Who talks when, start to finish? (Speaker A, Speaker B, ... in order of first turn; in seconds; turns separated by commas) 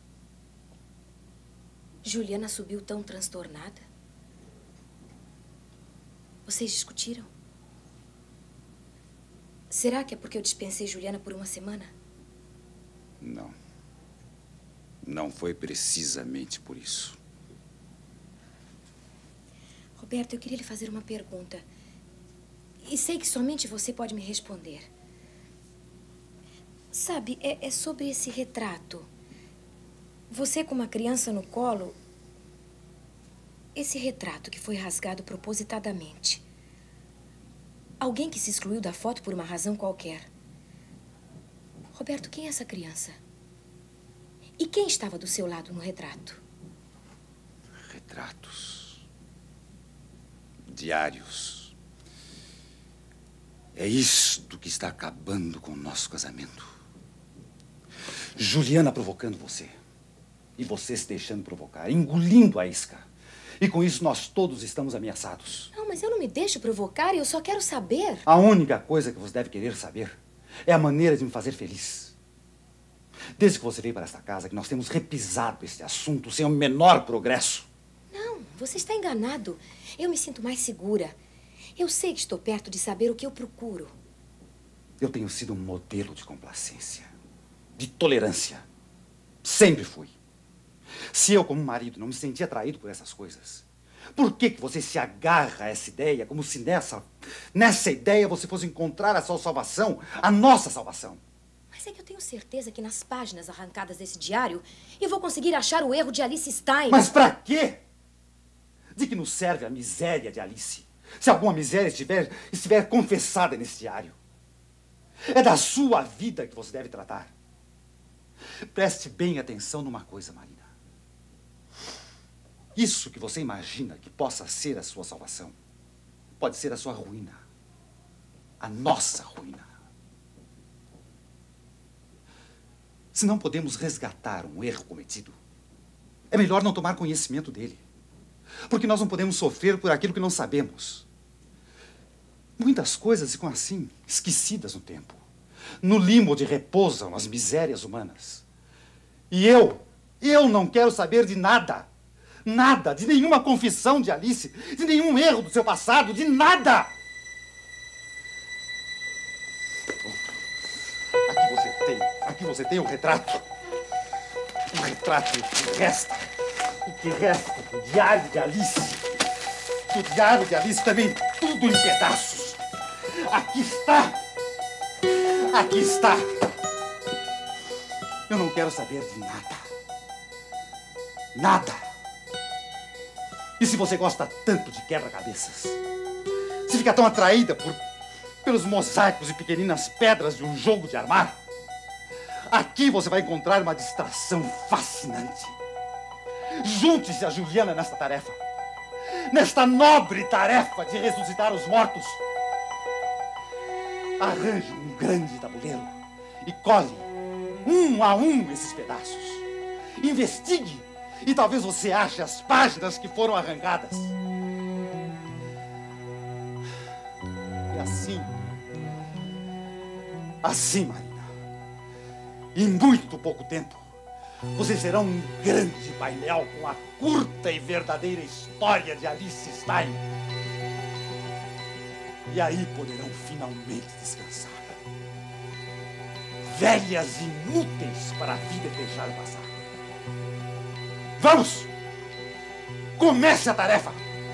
Speaker A: 2.0-3.9, Speaker A: 6.5-7.3, Speaker A: 9.7-11.9, Speaker B: 13.2-13.6, Speaker B: 15.0-17.2, Speaker A: 20.0-21.6, Speaker A: 22.8-24.9, Speaker A: 26.9-29.1, Speaker A: 30.3-32.0, Speaker A: 33.8-36.5, Speaker A: 38.0-40.3, Speaker A: 41.9-43.2, Speaker A: 44.6-46.4, Speaker B: 47.8-49.0, Speaker B: 50.7-51.8, Speaker B: 53.8-56.7, Speaker B: 58.4-59.7, Speaker B: 60.6-63.1, Speaker B: 63.6-65.7, Speaker A: 65.7-68.2, Speaker B: 68.3-72.2, Speaker B: 73.4-77.7, Speaker A: 78.1-81.2, Speaker A: 81.8-83.9, Speaker B: 85.0-87.1, Speaker B: 87.8-88.7, Speaker B: 89.4-90.2, Speaker B: 91.1-101.2, Speaker A: 101.7-107.1, Speaker B: 106.9-107.8, Speaker B: 109.0-114.2, Speaker B: 115.3-117.3, Speaker B: 118.7-120.7, Speaker B: 122.8-125.6, Speaker B: 126.4-127.4, Speaker B: 128.6-129.7, Speaker B: 133.1-135.3, Speaker B: 136.3-137.8, Speaker B: 138.7-141.1, Speaker B: 142.6-145.2, Speaker B: 145.8-148.5, Speaker B: 149.3-151.9, Speaker B: 152.4-156.9, Speaker B: 161.3-163.4, Speaker B: 164.7-166.3, Speaker B: 166.8-169.1, Speaker B: 169.9-172.6, Speaker B: 173.1-174.2, Speaker B: 175.1-176.3, Speaker B: 178.3-179.6, Speaker B: 181.3-181.8, Speaker B: 183.6-185.8, Speaker B: 186.7-187.8, Speaker B: 188.4-191.4, Speaker B: 192.5-195.6, Speaker B: 196.5-198.4, Speaker B: 199.1-202.2, Speaker B: 204.2-207.1, Speaker B: 207.7-209.5, Speaker B: 210.0-214.2, Speaker B: 217.7-218.3, Speaker B: 220.4-221.3, Speaker B: 222.6-223.9, Speaker B: 224.6-230.0, Speaker B: 232.3-234.8, Speaker B: 236.5-239.5, Speaker B: 241.2-241.7, Speaker B: 243.0-244.0